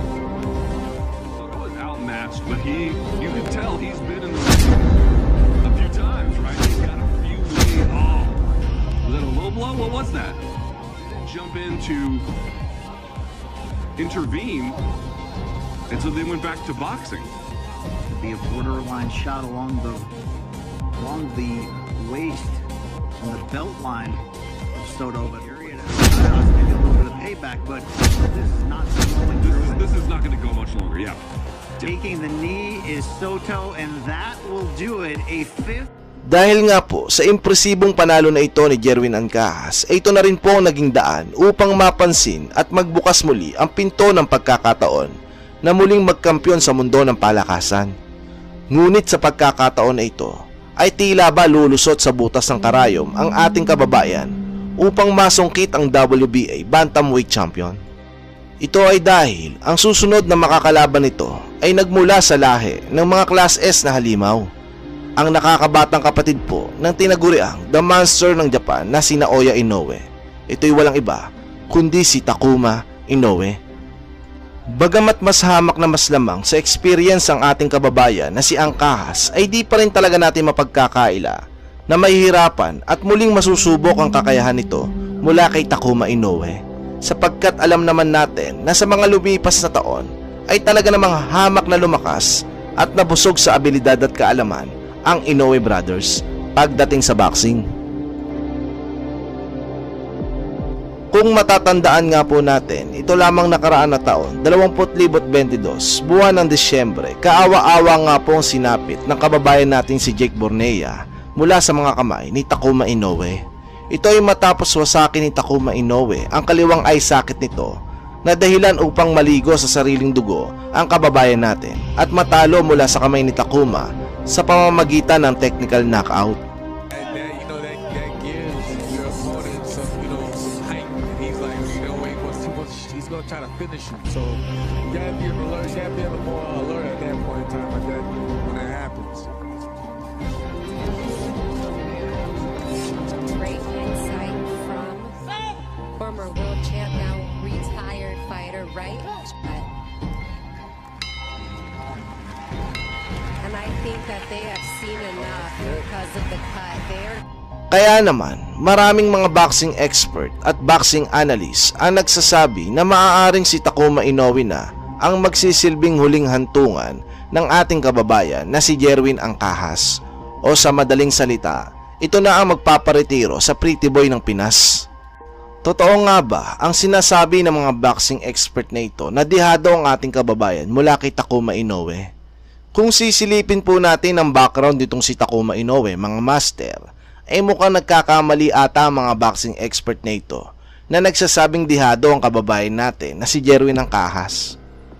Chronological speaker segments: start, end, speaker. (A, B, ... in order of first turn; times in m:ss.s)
0:01.4-0:04.9 A
0:05.6-0:08.4 A
0:09.0-0:10.4 A
0:11.0-0:12.2 A
0:14.0-0:14.8 A
0:15.9-0:17.3 A
0:18.1-0:20.1 B
0:21.0-0:22.6 B
0:23.2-0:24.2 B
0:24.7-0:29.9 B
0:29.4-0:31.2 A
0:31.8-0:35.9 B
0:36.3-0:45.1 C
0:45.6-0:47.9 C
0:48.7-0:57.8 C
0:58.6-1:04.4 C
1:05.2-1:13.6 C
1:14.8-1:21.4 C
1:21.9-1:37.6 C
1:41.1-1:53.4 C
1:53.9-1:57.7 C
1:58.2-2:06.4 C
2:06.9-2:14.4 D
2:14.9-2:19.3 D
2:23.1-2:25.2 E
2:26.0-2:29.7 E
2:33.4-2:37.2 E
2:37.7-2:49.9 C
2:50.4-2:54.8 C
2:55.6-3:02.0 C
3:02.7-3:14.6 C